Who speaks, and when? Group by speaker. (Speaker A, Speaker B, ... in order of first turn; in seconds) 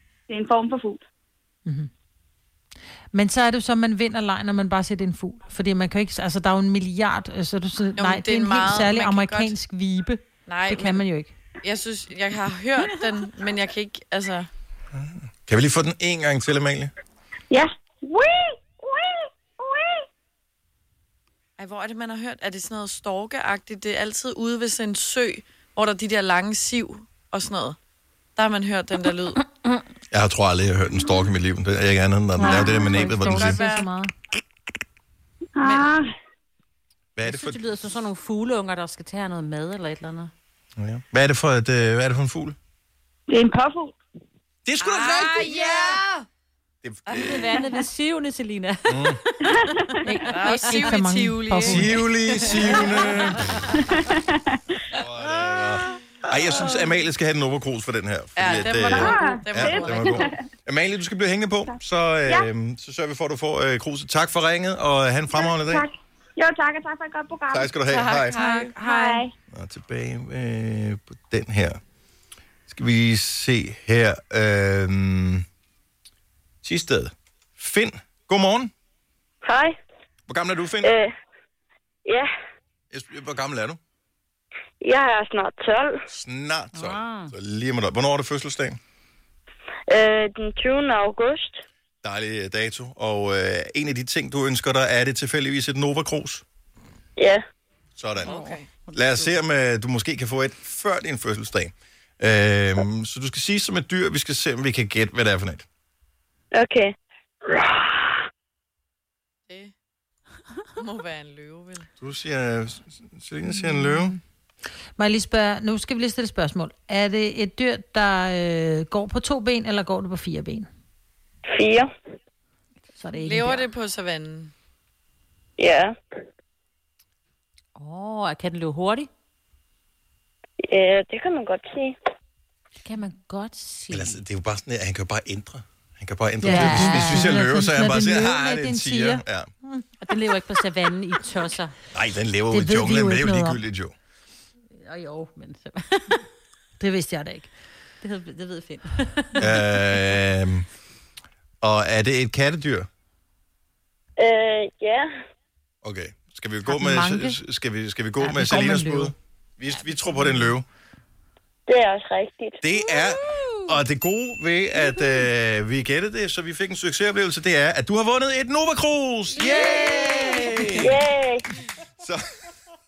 Speaker A: 0.3-1.0, 17.5-20.1, 35.5-36.1, 43.3-44.0, 54.1-54.4, 58.8-60.4, 61.7-62.5, 65.3-67.7, 68.4-69.3
Speaker B: 3.1-11.3, 32.4-34.1, 50.6-51.9, 113.6-114.0, 115.0-120.7, 123.0-123.7, 136.4-139.9, 142.5-143.6, 146.8-147.5, 156.7-157.4, 158.2-159.1
Speaker C: 8.0-9.6, 10.5-11.0, 11.6-14.5, 21.6-27.8, 28.4-29.4, 32.4-33.9, 35.6-35.9, 44.8-46.2, 47.1-47.7, 50.2-53.2, 58.4-60.3, 67.9-69.3, 98.2-98.7, 110.8-111.9, 123.2-124.5
Speaker D: 14.9-16.9, 30.1-33.6, 37.2-37.6, 40.8-42.6, 44.6-45.5, 46.8-47.6, 48.9-49.2, 51.6-53.6, 55.0-65.9, 67.5-68.4, 69.5-71.8, 72.7-75.5, 76.6-78.7, 80.3-81.0, 82.9-83.8, 86.1-88.8, 92.0-96.4, 98.0-105.7, 112.0-114.2, 133.9-139.5, 141.9-143.9, 149.4-150.7, 151.6-152.9, 155.8-160.7, 162.6-170.9
Speaker E: 37.2-40.3, 45.6-45.9, 47.1-51.0, 52.5-53.5, 86.7-87.3, 98.3-99.0, 127.8-129.1, 132.8-134.2, 136.4-137.3, 140.0-141.8, 144.8-146.3, 148.0-149.6
Speaker F: 79.4-79.8, 80.8-81.1, 82.0-82.3, 84.8-86.0, 89.9-91.6, 97.2-97.4, 106.5-108.2, 121.5-121.9, 125.6-125.9, 130.6-132.0, 154.2-155.1, 161.7-162.6, 170.8-171.5